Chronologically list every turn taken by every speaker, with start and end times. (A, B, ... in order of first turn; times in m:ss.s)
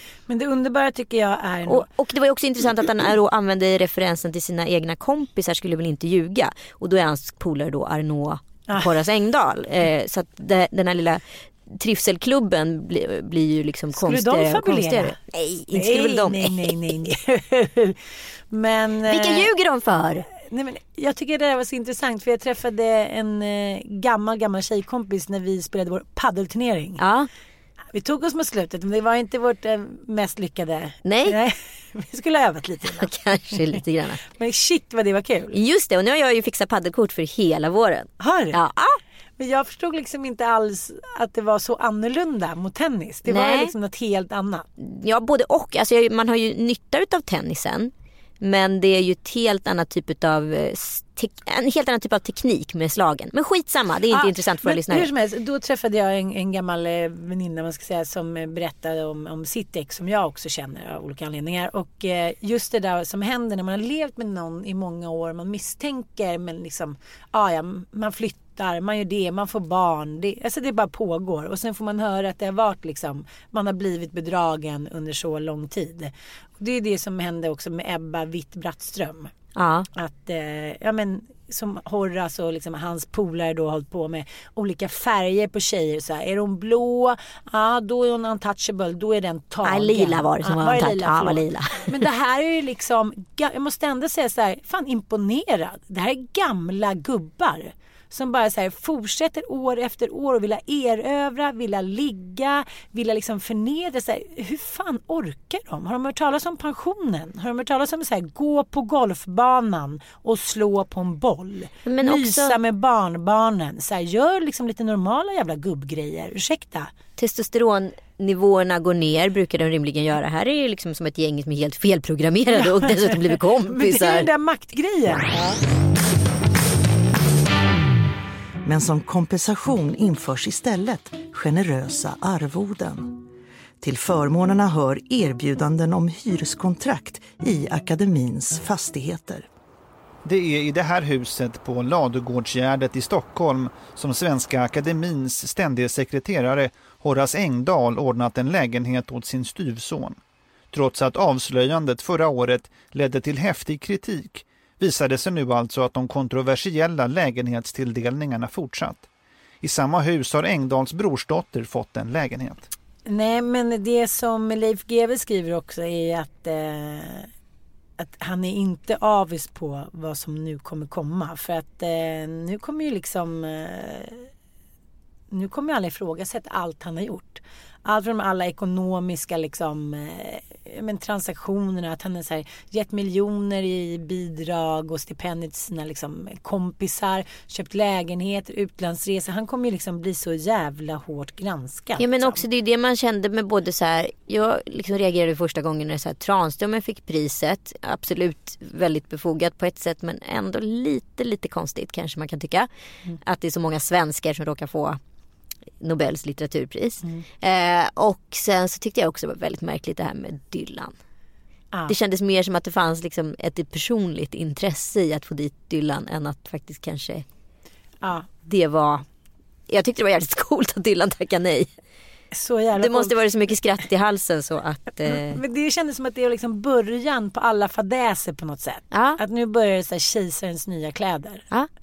0:00.3-0:01.9 A
0:01.7-0:16.6 B
0:14.0-0:15.2 A
0:15.7-0:18.0 A
0:18.5-0:19.5 A
0:19.1-0:20.3 B
0:20.4-0:27.0 A
0:27.0-0:27.3 B
0:27.9-0:33.1 A
0:31.0-0:31.4 B
0:33.0-0:34.2 B
0:34.3-0:35.6 A
0:35.5-0:39.0 B
0:38.2-0:38.6 A
0:39.4-0:44.7 A
0:43.3-0:43.7 B
0:44.8-0:55.1 B
0:54.1-1:19.3 A
1:19.6-1:19.9 B
1:20.0-1:56.9 A
1:29.6-1:32.0 B
1:51.8-1:52.6 B
1:57.2-2:04.3 B
2:02.6-2:05.6 A
2:08.6-2:13.2 C
2:13.8-2:19.5 C
2:20.2-2:30.2 D
2:30.7-2:39.1 D
2:39.6-2:42.6 D
2:43.1-2:47.3 A
2:48.0-2:54.3 A
2:55.3-3:12.4 A
3:12.0-3:22.7 B
3:23.2-3:25.0 B
3:25.8-3:30.9 B
3:31.9-3:37.2 B
3:38.0-3:38.3 A
3:38.5-3:39.0 B
3:39.7-3:41.7 B
3:42.3-3:43.2 A
3:42.8-3:45.4 B
3:45.0-3:51.4 A
3:48.9-3:49.2 B